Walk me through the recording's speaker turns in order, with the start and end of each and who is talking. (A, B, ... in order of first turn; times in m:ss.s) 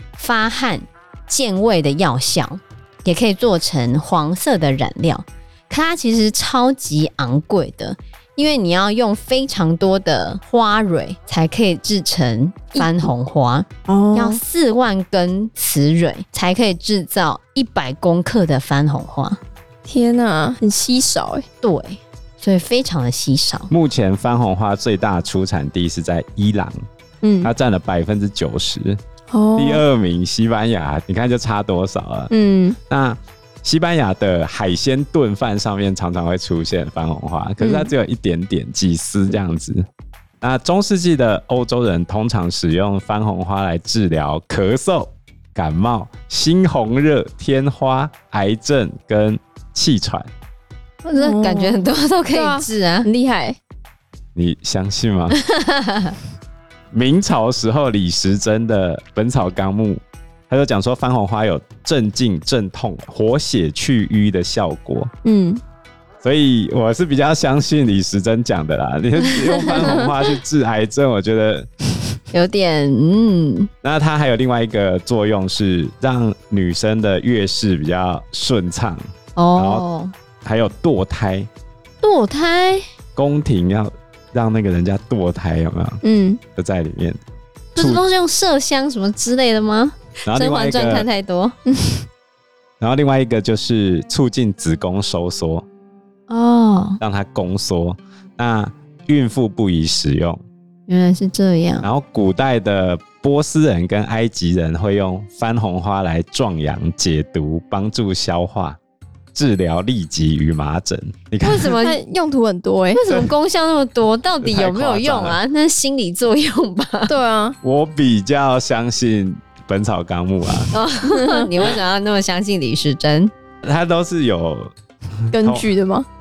0:00.2-0:19.4 A
0:12.8-0:13.1 B
0:13.9-0:14.4 B
0:19.8-0:21.4 B
0:21.6-0:23.7 A
0:23.7-0:26.8 C
0:27.2-0:27.5 B
0:27.4-0:29.0 C
0:29.3-0:29.8 B
0:29.6-0:32.3 C
0:32.3-0:32.8 B
0:32.9-0:39.8 C
0:37.6-0:37.9 B
0:40.4-0:50.3 C
0:51.0-0:53.1 A
0:51.1-0:53.6 B
0:54.3-0:55.4 C
0:55.4-0:56.2 A
0:56.9-1:05.1 C
1:05.2-1:05.6 B
1:06.2-1:11.7 C
1:12.3-1:13.7 A
1:13.8-1:19.0 C
1:19.4-1:20.1 A
1:19.6-1:19.8 C
1:20.4-1:21.5 C
1:22.0-1:22.8 A
1:23.2-1:26.0 C
1:26.0-1:26.4 B
1:26.6-1:27.2 C
1:27.7-1:31.6 A
1:27.8-1:28.0 C
1:30.3-1:31.1 C
1:31.7-1:32.0 B
1:32.8-1:35.7 C
1:36.3-1:37.0 A
1:37.0-1:40.4 C
1:40.9-1:41.9 A
1:41.8-1:48.8 C
1:49.3-1:51.7 C
1:51.4-1:52.0 A
1:51.8-1:53.0 B
1:52.9-1:57.1 A
1:54.4-1:55.4 C
1:57.1-1:57.6 B
1:57.6-2:00.7 C
2:00.7-2:03.3 A
2:01.1-2:01.5 B
2:03.6-2:04.7 C
2:05.2-2:05.7 C
2:05.3-2:06.1 B